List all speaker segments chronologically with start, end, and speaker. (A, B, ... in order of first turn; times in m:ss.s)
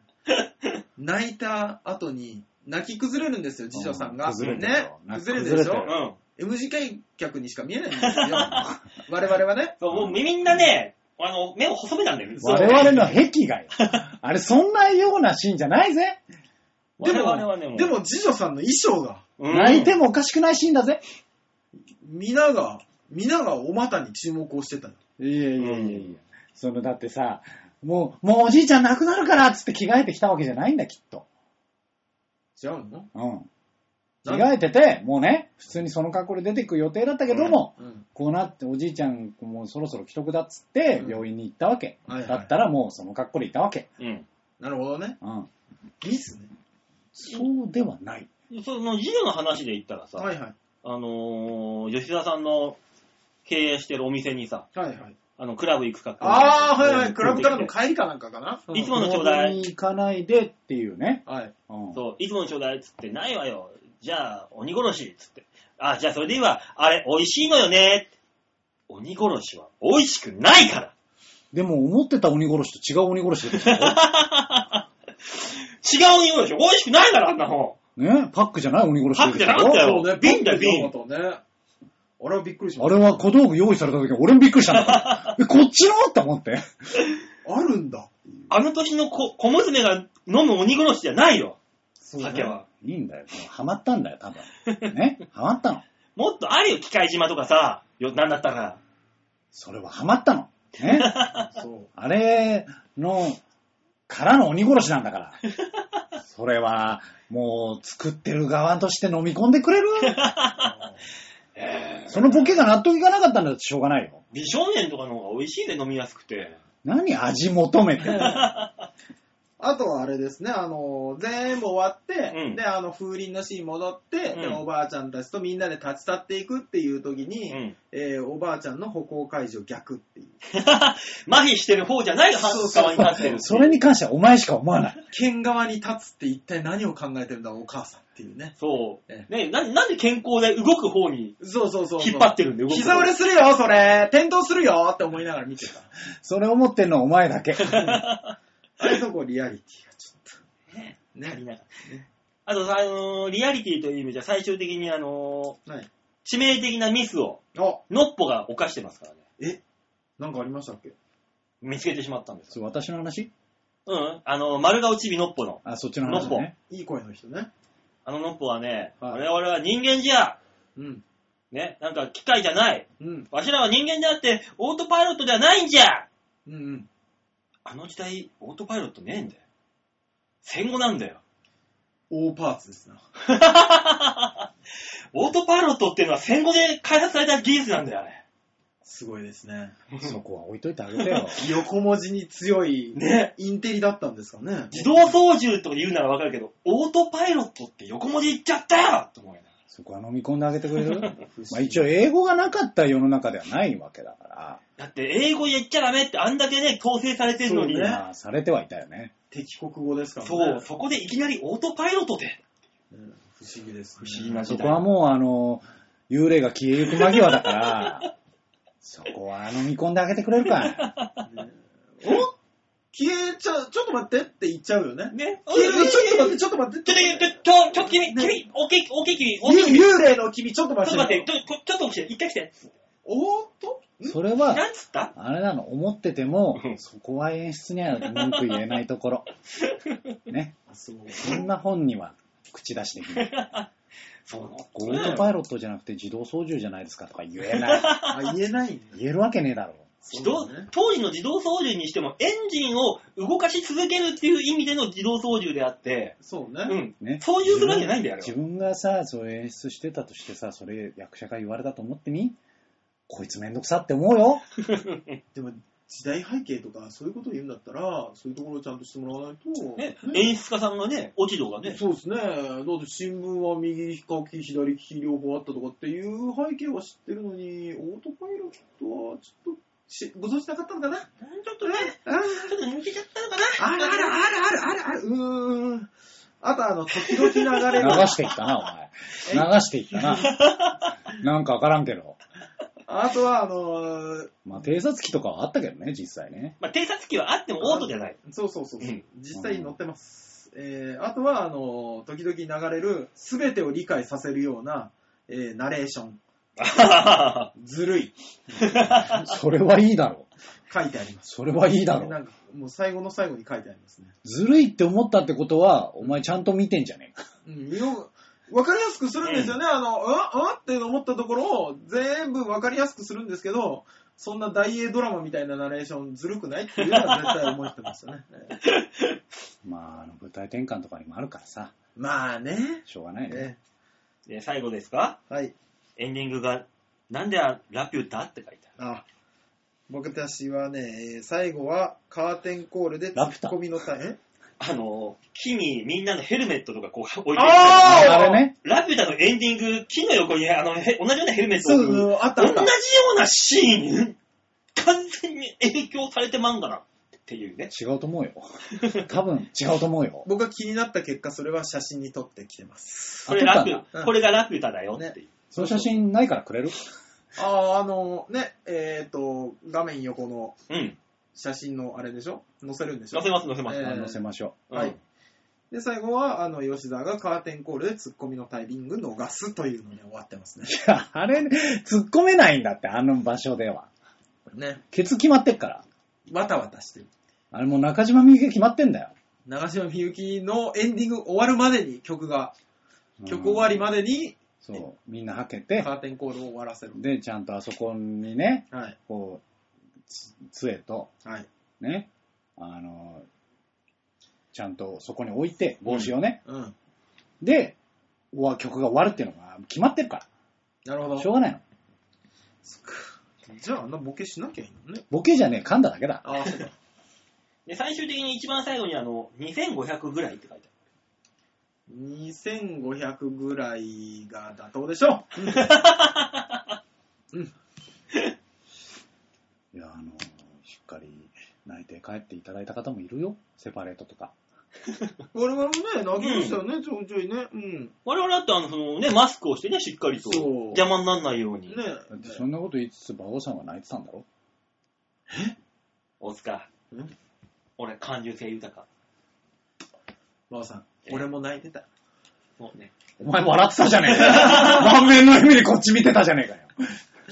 0:00.3-0:00.8 A
0:01.0-0:09.8 B
0:03.7-0:06.0 C
0:05.8-0:06.2 A
0:08.0-0:08.7 A
0:08.4-0:08.8 C
0:09.8-0:13.2 A
0:09.9-0:10.6 C
0:12.4-0:13.2 B
0:12.4-0:16.2 C
0:13.8-0:14.0 A
0:17.0-0:18.0 A
0:17.0-0:19.3 B
0:19.4-0:20.0 A
0:19.5-0:21.0 C
0:22.0-0:25.0 B
0:25.2-0:31.3 C
0:25.6-0:26.2 A
0:32.6-0:33.1 B
0:33.1-0:33.5 C
0:34.2-0:34.5 B
0:34.3-0:43.9 C
0:37.3-0:37.6 A
0:37.8-0:38.0 B
0:41.0-0:41.2 B
0:42.1-0:42.5 B
0:44.0-0:44.3 A
0:44.6-0:45.2 B
0:45.2-0:45.5 C
0:46.0-0:46.5 B
0:47.1-0:48.3 C
0:48.5-0:50.3 A
0:50.2-0:50.5 B
0:50.8-0:52.8 A
0:53.4-0:54.7 A
0:54.8-0:55.2 B
0:55.4-0:57.7 A
0:56.2-0:58.9 B
0:58.7-0:59.6 A
0:58.9-1:02.0 C
1:01.3-1:01.5 B
1:01.9-1:08.1 A
1:08.9-1:10.9 A
1:11.5-1:14.0 C
1:13.5-1:14.8 A
1:15.4-1:17.8 A
1:18.0-1:19.8 C
1:19.1-1:20.9 A
1:19.6-1:21.4 B
1:22.2-1:23.2 B
1:22.8-1:26.9 C
1:24.7-1:25.3 A
1:27.4-1:28.5 B
1:28.5-1:31.6 A
1:32.0-1:32.6 B
1:32.2-1:32.7 A
1:32.8-1:35.8 C
1:36.2-1:38.8 A
1:39.5-1:41.1 C
1:40.8-1:41.5 A
1:41.5-1:41.9 B
1:42.0-1:43.4 C
1:44.1-1:45.4 C
1:46.2-1:50.2 C
1:50.0-1:50.7 A
1:50.6-1:51.0 B
1:51.6-1:52.5 A
1:52.1-1:54.2 C
1:54.3-1:56.6 A
1:56.8-1:58.4 C
1:58.0-1:58.7 A
1:59.6-2:10.4 B
2:02.3-2:02.6 A
2:04.3-2:04.6 A
2:07.5-2:07.7 A
2:10.5-2:13.8 A
2:12.3-2:13.5 B
2:13.0-2:15.0 C
2:15.1-2:18.6 B
2:18.6-2:21.4 A
2:21.4-2:25.9 B
2:22.0-2:23.1 A
2:26.2-2:28.0 C
2:27.6-2:28.4 A
2:28.8-2:30.4 B
2:30.7-2:31.7 A
2:31.2-2:32.1 B
2:32.5-2:35.6 A
2:36.2-2:39.2 A
2:37.6-2:37.8 B
2:40.2-2:41.0 B
2:41.6-2:42.6 A
2:42.5-2:43.3 C
2:43.9-2:46.5 A
2:45.6-2:46.5 C
2:46.1-2:47.5 B
2:48.1-2:50.4 A
2:50.8-2:51.0 B
2:51.5-2:56.1 A
2:53.0-2:53.3 B
2:56.5-2:56.9 B
2:57.7-2:59.4 A
3:00.4-3:01.2 A
3:02.1-3:03.0 B
3:03.2-3:04.5 A
3:05.1-3:08.2 A
3:08.8-3:09.8 B
3:09.9-3:10.2 A
3:10.0-3:11.4 C
3:11.0-3:11.4 A
3:11.3-3:15.2 B
3:13.0-3:13.3 A
3:14.7-3:19.5 A
3:19.7-3:24.6 C
3:21.2-3:21.9 B
3:24.8-3:27.9 A
3:27.4-3:28.0 B
3:27.7-3:29.1 C
3:29.3-3:30.7 B
3:30.2-3:32.4 A
3:32.9-3:34.5 B
3:34.0-3:34.8 A
3:34.4-3:38.1 C
3:37.0-3:38.1 A
3:38.8-3:40.9 C
3:40.6-3:41.2 A
3:41.2-3:42.3 B
3:42.9-3:48.4 B
3:45.1-3:49.9 A
3:49.4-3:51.3 B
3:50.8-3:52.7 A
3:53.0-3:54.2 B
3:54.1-3:54.6 C
3:54.5-3:55.1 A
3:55.2-3:59.3 C
3:58.1-3:58.6 A
3:59.6-4:00.1 A
4:00.3-4:00.6 C
4:00.7-4:01.4 B
4:01.2-4:03.4 C
4:03.1-4:03.7 A
4:04.3-4:05.3 A
4:04.7-4:07.9 C
4:07.4-4:08.3 A
4:08.1-4:09.0 B
4:08.9-4:10.0 C
4:10.0-4:10.7 B
4:10.1-4:16.2 A
4:16.2-4:16.8 B
4:16.7-4:18.3 A
4:17.0-4:22.4 C
4:23.1-4:24.4 C
4:24.7-4:25.2 A
4:25.3-4:30.3 B
4:29.8-4:31.8 A
4:31.6-4:41.1 B
4:41.2-4:44.2 A
4:41.6-4:42.6 B
4:43.6-4:45.9 B
4:46.4-4:48.2 B
4:47.0-4:48.3 A
4:47.8-4:50.4 C
4:49.9-4:50.9 A
4:51.1-4:52.2 C
4:52.9-4:54.4 B
4:54.5-4:56.6 C
4:56.6-4:58.2 A
4:57.6-5:06.2 B
4:59.3-4:59.8 C
5:06.6-5:07.5 A
5:07.6-5:09.3 B
5:08.6-5:09.2 A
5:09.1-5:10.3 C
5:10.7-5:14.1 B
5:11.3-5:12.2 C
5:14.2-5:17.3 C
5:17.4-5:28.6 B
5:19.2-5:19.6 A
5:26.8-5:27.5 A
5:28.6-5:29.2 A
5:29.6-5:31.7 C
5:32.0-5:33.6 B
5:32.9-5:33.5 C
5:34.3-5:35.2 A
5:35.3-5:35.6 B
5:36.0-5:38.7 A
5:38.8-5:39.0 B
5:39.9-5:44.2 B
5:43.2-5:43.6 C
5:44.6-5:54.2 A
5:47.4-5:48.4 B
5:47.8-5:48.5 C
5:51.6-5:52.7 B
5:54.8-5:57.7 A
5:57.7-6:00.3 C
5:58.8-5:59.1 A
6:00.2-6:03.3 B
6:03.3-6:03.8 C
6:03.3-6:05.3 A
6:05.0-6:06.0 B
6:05.5-6:06.8 C
6:07.4-6:10.6 B
6:10.7-6:11.0 A
6:11.4-6:14.2 B
6:13.1-6:14.0 A
6:13.8-6:14.6 C
6:14.7-6:15.0 A
6:15.7-6:20.8 B
6:20.7-6:23.9 C
6:24.5-6:24.8 B
6:24.9-6:25.8 C
6:26.3-6:27.1 B
6:27.5-6:29.1 C
6:29.5-6:32.5 B
6:33.2-6:33.9 C
6:33.3-6:34.4 B
6:34.6-6:35.9 C
6:35.8-6:37.0 B
6:37.0-6:39.4 C
6:38.7-6:39.0 B
6:40.1-6:41.1 C
6:41.8-6:43.3 C
6:44.5-6:46.4 C
6:46.4-6:46.8 B
6:47.4-6:47.8 C
6:48.3-6:50.3 C
6:50.8-6:51.3 B
6:51.2-6:51.6 C
6:52.6-6:55.0 B
6:55.1-6:56.3 C
6:56.2-6:56.7 B
6:57.7-7:00.7 A
7:01.9-7:05.8 B
7:05.4-7:06.6 A
7:09.7-7:14.3 C
7:15.3-7:17.9 B
7:16.2-7:16.6 A
7:18.0-7:21.8 A
7:20.2-7:20.8 B
7:21.7-7:22.4 B
7:22.1-7:24.2 C
7:25.3-7:25.6 B
7:26.2-7:26.7 A
7:27.8-7:28.9 A
7:30.5-7:31.8 B
7:32.6-7:32.9 A
7:33.2-7:36.8 C
7:34.2-7:34.8 A